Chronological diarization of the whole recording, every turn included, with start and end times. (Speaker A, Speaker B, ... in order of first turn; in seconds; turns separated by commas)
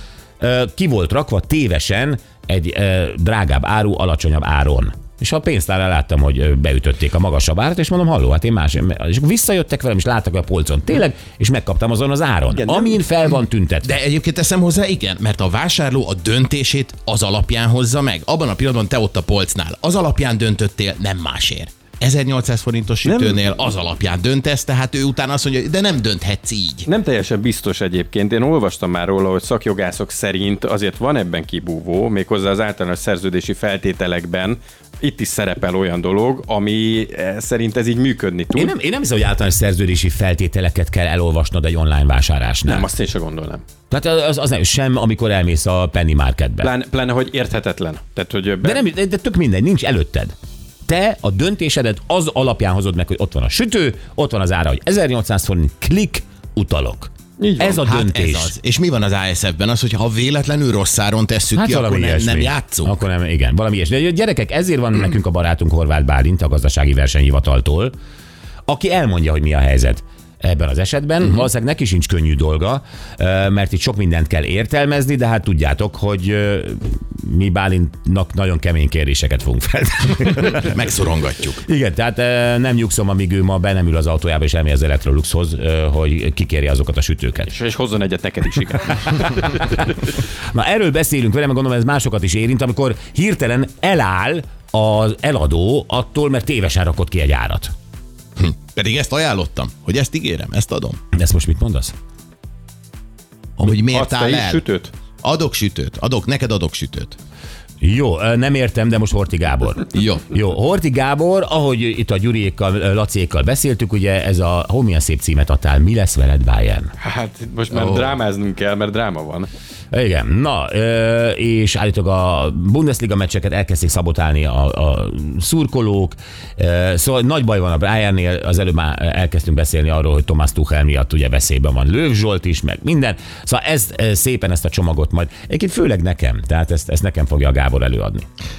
Speaker A: 0.4-13.9, Speaker B: 12.6-13.0, Speaker C: 13.8-26.9, Speaker B: 23.0-23.4, Speaker B: 26.9-38.7, Speaker A: 38.5-42.9, Speaker B: 42.6-43.6, Speaker A: 43.9-46.7, Speaker B: 46.6-48.8, Speaker A: 48.6-50.3, Speaker A: 50.9-58.5, Speaker B: 57.4-57.8, Speaker C: 57.8-62.9, Speaker A: 61.5-67.9, Speaker A: 68.7-80.8, Speaker C: 80.5-81.6, Speaker A: 81.6-87.5, Speaker B: 87.5-89.9, Speaker A: 90.5-97.7, Speaker C: 98.4-101.0, Speaker A: 101.1-101.9, Speaker C: 103.6-104.6, Speaker B: 103.6-104.9, Speaker C: 105.2-107.2, Speaker A: 107.8-116.9, Speaker C: 109.9-110.3, Speaker B: 117.0-119.5, Speaker C: 117.7-118.1, Speaker A: 119.9-138.3